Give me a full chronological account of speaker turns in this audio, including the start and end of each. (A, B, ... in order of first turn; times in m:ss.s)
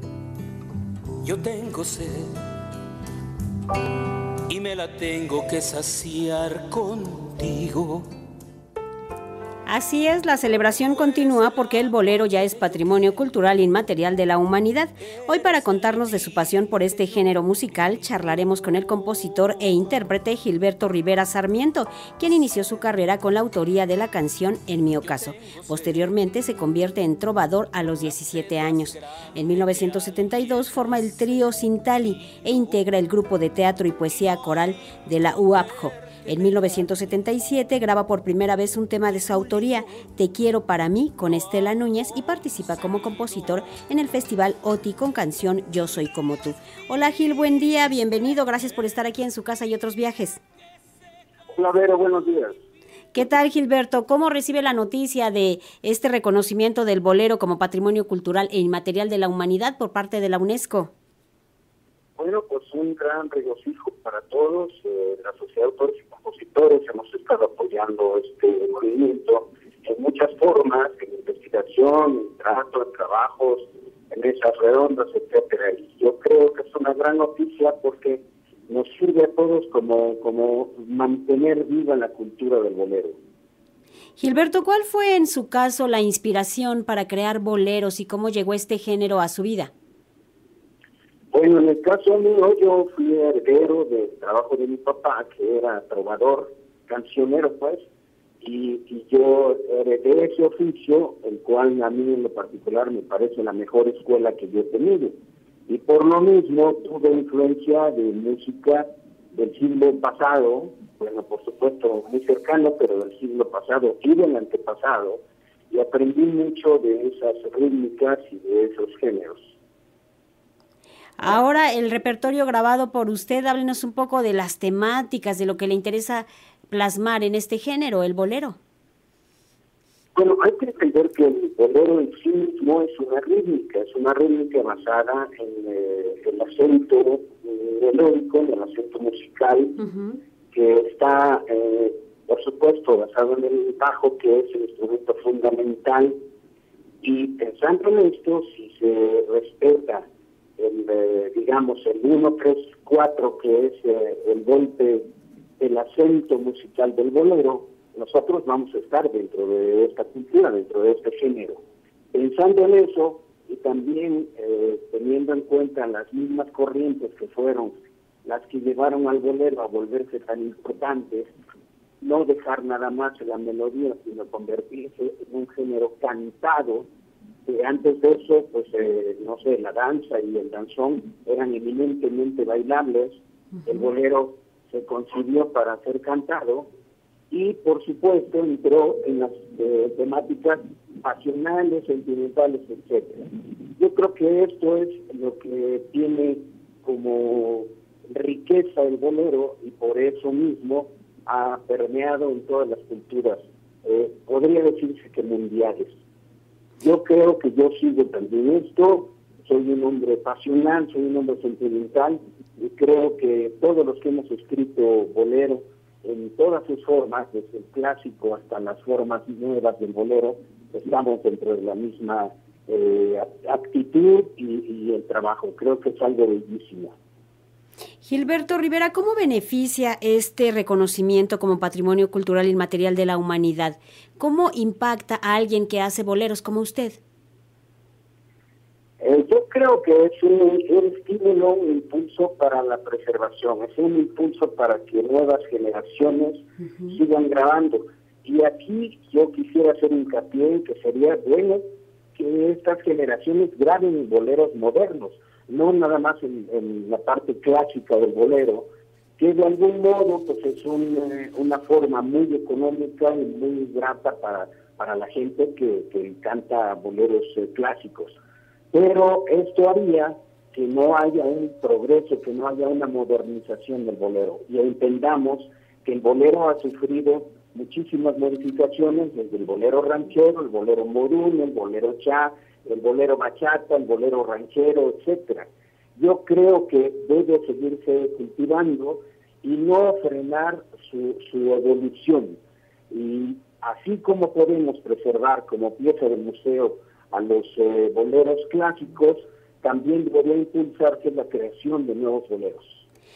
0:01.2-0:02.3 A
0:04.5-0:08.1 A
0:09.7-0:50.4 B
0:51.5-0:52.6 C
0:53.1-1:00.9 B
1:02.2-1:23.2 C
1:24.2-1:29.7 B
1:31.3-1:37.8 C
1:38.4-1:45.1 C
1:45.7-1:59.6 C
2:01.2-2:08.6 B
2:10.2-2:19.8 C
2:19.8-2:20.2 B
2:20.5-2:26.2 C
2:27.0-2:30.1 C
2:30.6-2:35.0 C
2:35.6-2:41.6 C
2:42.1-2:51.3 C
2:52.0-2:56.9 C
2:57.5-3:06.7 C
3:07.3-3:26.0 C
3:26.8-3:46.9 C
3:48.0-3:57.0 B
3:59.0-4:11.6 C
4:12.2-4:18.7 C
4:19.2-4:28.2 C
4:28.7-4:52.4 C
4:52.9-5:02.8 C